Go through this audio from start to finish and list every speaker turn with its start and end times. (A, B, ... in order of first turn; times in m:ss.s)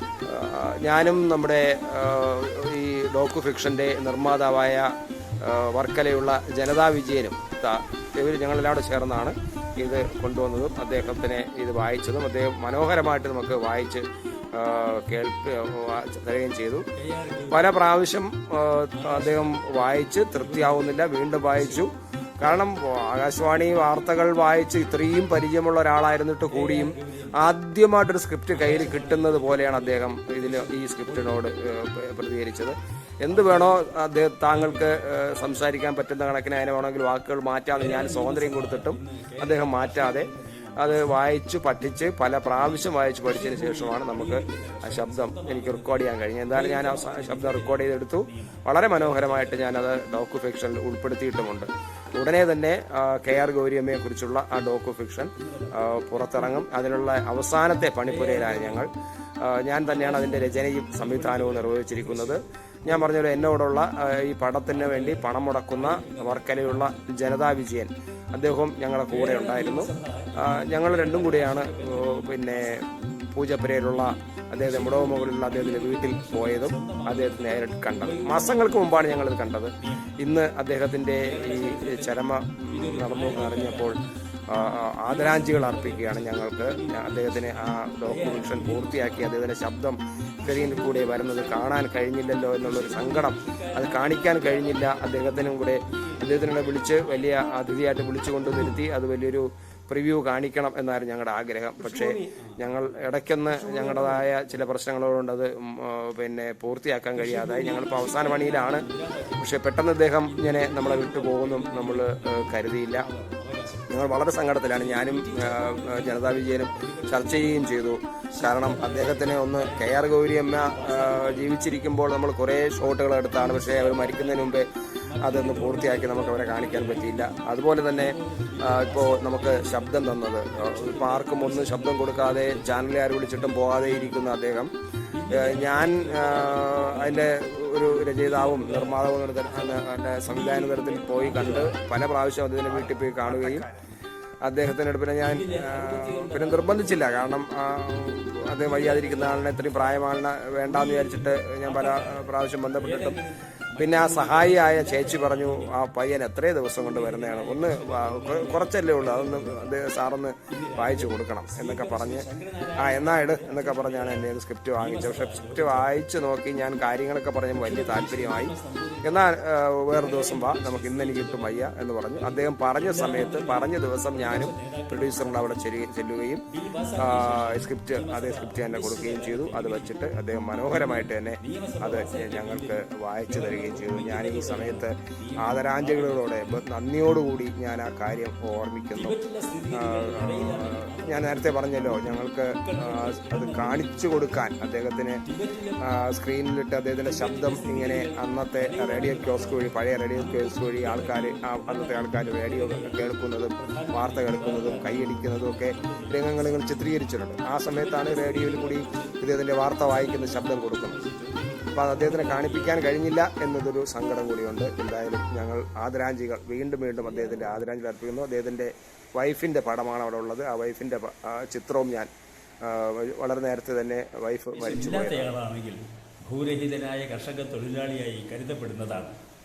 0:00.3-0:16.9 A
0:17.0-0:17.7 B
0:17.5-0:58.9 A
0:18.9-0:19.8 B
0:20.3-0:21.9 B
0:26.5-0:27.5 B
0:28.5-0:31.4 B
0:33.3-0:33.9 B
0:34.4-0:35.7 B
0:37.7-0:41.3 B
0:42.6-0:49.8 B
0:55.4-0:56.6 B
0:58.0-0:58.9 B
0:59.4-1:24.0 A
0:59.8-1:03.6 B
1:04.7-1:07.1 B
1:09.1-1:12.9 B
1:13.8-1:20.2 B
1:21.2-1:24.1 B
1:24.5-1:48.9 A
1:25.0-1:29.4 B
1:30.4-1:31.9 B
1:32.5-1:37.4 B
1:38.4-1:38.8 B
1:42.2-1:42.7 B
1:44.2-1:44.6 B
1:47.1-1:49.6 B
1:49.4-1:53.0 A
1:50.2-1:57.8 B
1:53.9-2:04.7 A
1:58.3-2:01.9 B
2:03.3-2:14.4 B
2:05.2-2:14.7 A
2:15.1-2:21.8 B
2:15.3-2:23.6 A
2:22.6-2:23.9 B
2:24.4-2:33.2 A
2:25.2-2:27.4 B
2:28.5-2:35.8 B
2:33.8-2:42.2 A
2:36.8-2:39.8 B
2:40.5-2:45.9 B
2:42.8-2:56.4 A
2:47.5-2:49.3 B
2:49.9-2:55.7 B
2:56.5-3:00.0 B
2:57.0-3:09.2 A
3:00.7-3:06.6 B
3:08.9-3:14.4 B
3:09.7-3:15.2 A
3:15.2-3:15.9 B
3:15.8-3:31.0 A
3:17.0-3:27.0 B
3:27.7-3:29.2 B
3:29.8-3:32.9 B
3:31.8-3:42.1 A
3:37.0-3:37.6 B
3:42.6-3:45.3 A
3:44.5-3:49.2 B